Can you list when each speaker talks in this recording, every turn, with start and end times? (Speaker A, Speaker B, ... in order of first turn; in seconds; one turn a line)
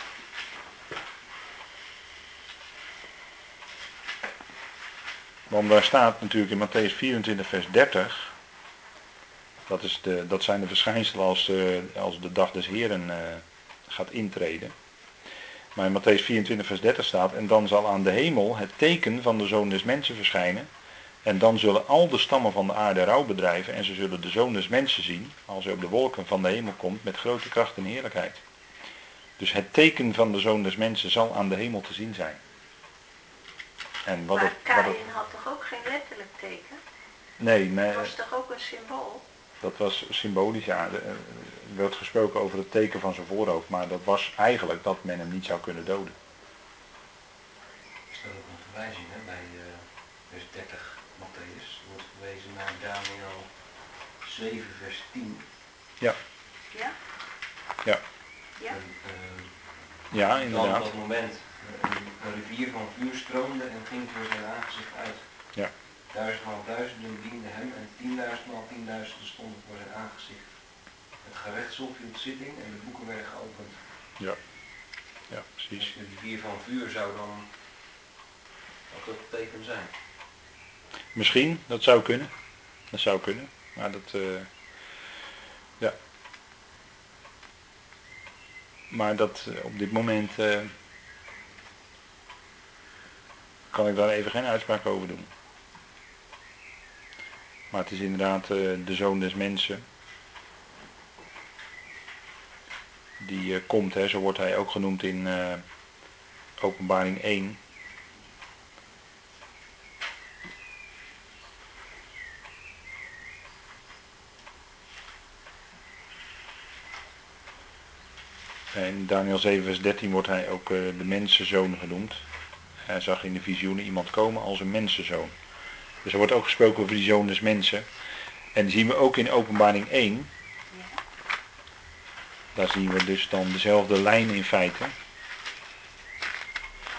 Speaker A: 5.5-8.3
Speaker A: 9.7-14.7
Speaker A: 15.8-20.7
Speaker A: 21.2-28.4
Speaker A: 29.4-32.4
Speaker A: 34.0-35.0
Speaker B: 34.3-36.8
Speaker A: 37.4-38.2
Speaker B: 37.9-39.2
Speaker A: 39.6-46.1
Speaker C: 48.1-55.5
Speaker B: 56.7-57.0
Speaker C: 58.7-73.8
Speaker A: 60.1-60.9
Speaker A: 75.3-75.9
Speaker C: 75.7-77.7
Speaker C: 78.9-80.0
Speaker A: 81.2-82.3
Speaker A: 82.9-84.5
Speaker A: 88.9-90.7
Speaker A: 93.7-95.3
Speaker A: 97.7-99.8
Speaker A: 103.2-105.6
Speaker A: 106.6-107.6
Speaker A: 118.7-122.2
Speaker A: 122.9-125.3
Speaker A: 126.0-127.8
Speaker A: 128.6-130.3
Speaker B: 130.7-131.0
Speaker A: 132.6-134.9